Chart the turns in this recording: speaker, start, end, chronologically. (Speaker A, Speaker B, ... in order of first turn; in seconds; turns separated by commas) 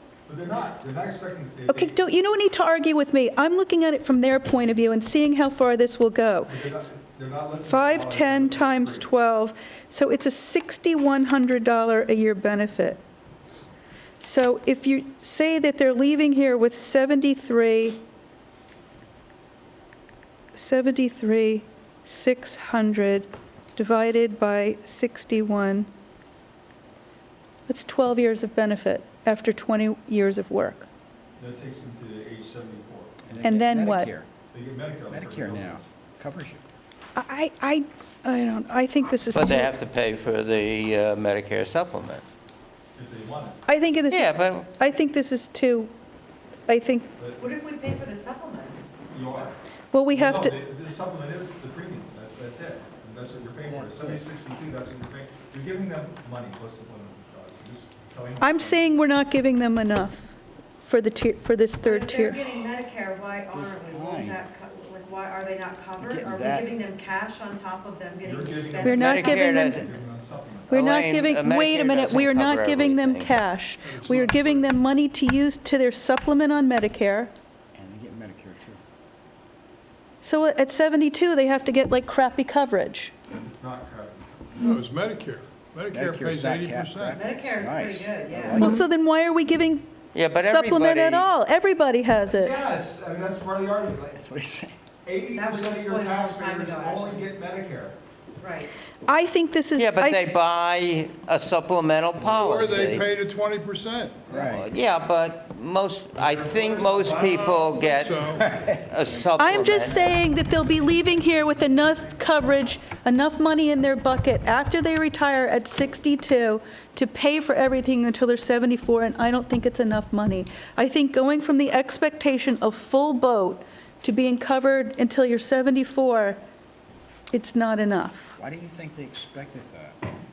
Speaker A: 0.2-2.0, Speaker B: 1.7-6.7, Speaker A: 6.5-9.1, Speaker B: 7.7-13.0, Speaker B: 14.2-18.0, Speaker B: 20.5-25.9, Speaker B: 27.7-30.9, Speaker A: 31.4-33.6, Speaker C: 33.3-34.3, Speaker B: 33.4-34.1, Speaker A: 34.5-35.9, Speaker C: 35.1-36.6, Speaker B: 37.1-39.7, Speaker D: 39.3-42.2, Speaker A: 42.9-43.6, Speaker B: 43.7-45.9, Speaker D: 44.1-44.7, Speaker B: 46.7-47.1, Speaker A: 47.2-47.5, Speaker E: 47.4-48.8, Speaker A: 49.1-49.6, Speaker B: 49.9-50.5, Speaker A: 50.1-58.9, Speaker C: 53.6-54.2, Speaker B: 58.4-62.4, Speaker E: 61.8-69.2, Speaker C: 63.5-64.4, Speaker C: 66.0-66.7, Speaker A: 68.2-70.8, Speaker B: 68.8-69.8, Speaker D: 68.9-69.9, Speaker D: 70.7-73.4, Speaker B: 70.7-77.3, Speaker F: 73.8-74.8, Speaker C: 77.7-78.8, Speaker B: 80.2-83.1, Speaker A: 83.3-84.4, Speaker F: 84.6-87.2, Speaker C: 85.9-88.8, Speaker E: 87.1-88.7, Speaker B: 88.5-92.6, Speaker D: 90.1-91.3, Speaker A: 92.3-94.2, Speaker C: 94.1-94.7, Speaker A: 95.0-98.0, Speaker E: 95.3-97.2, Speaker E: 98.4-98.7, Speaker B: 99.0-100.3, Speaker D: 99.7-103.1, Speaker F: 102.3-104.3, Speaker C: 104.3-104.7, Speaker D: 104.3-110.2, Speaker A: 106.2-108.2, Speaker F: 108.0-108.5, Speaker C: 108.3-109.9, Speaker B: 109.3-126.4, Speaker B: 127.3-128.3, Speaker C: 128.4-130.0